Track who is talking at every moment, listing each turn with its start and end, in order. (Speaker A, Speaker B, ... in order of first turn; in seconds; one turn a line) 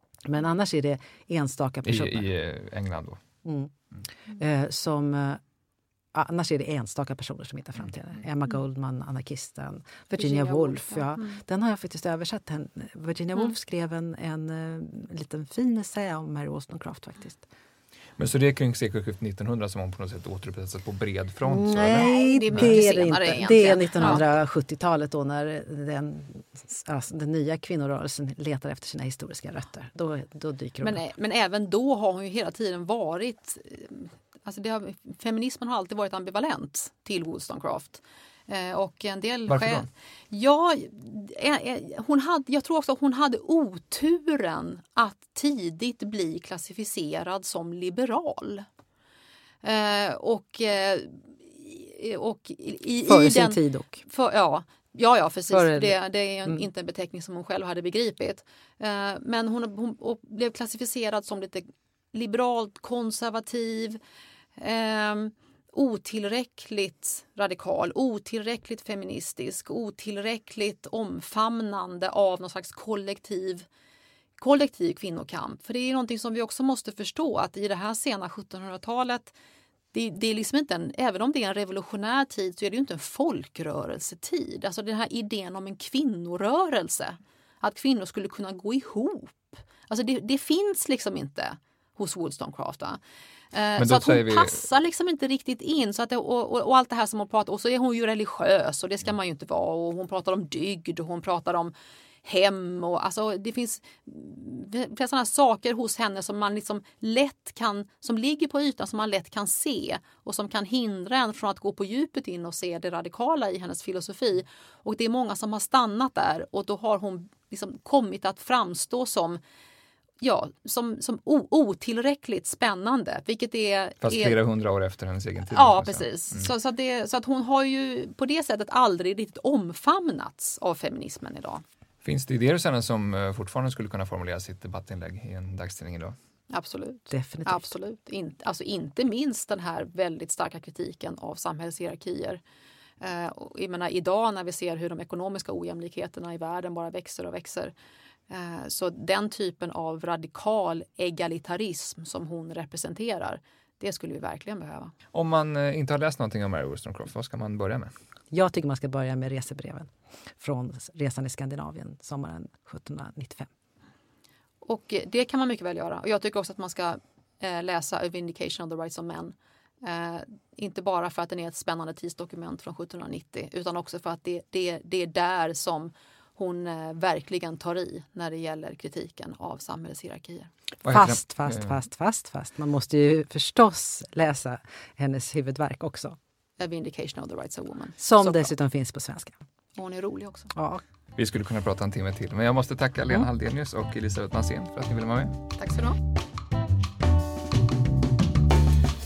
Speaker A: 0.2-2.3
Speaker B: 1.9-3.2
Speaker A: 3.4-3.7
Speaker A: 4.3-5.4
Speaker A: 6.1-17.4
Speaker C: 10.1-11.4
Speaker B: 18.2-22.8
Speaker A: 21.4-31.0
Speaker C: 21.9-24.2
Speaker C: 30.8-48.7
Speaker B: 39.5-39.8
Speaker C: 49.6-64.0
Speaker A: 53.0-54.0
Speaker A: 55.5-56.6
Speaker C: 64.6-73.7
Speaker C: 74.4-79.3
Speaker C: 79.9-93.0
Speaker C: 93.5-101.7
Speaker B: 93.8-94.6
Speaker C: 102.2-119.4
Speaker C: 120.2-124.4
Speaker B: 124.0-126.5
Speaker C: 125.5-131.6
Speaker B: 132.0-136.1
Speaker C: 136.5-142.4
Speaker A: 137.1-137.7
Speaker C: 143.0-147.7
Speaker C: 148.3-154.9
Speaker B: 155.1-157.9
Speaker A: 158.3-163.5
Speaker C: 164.6-180.5
Speaker B: 180.8-181.8
Speaker A: 180.9-186.2
Speaker C: 186.6-188.5
Speaker A: 188.0-189.4
Speaker C: 189.8-190.5
Speaker A: 190.6-190.8
Speaker B: 191.2-195.4
Speaker C: 195.6-196.0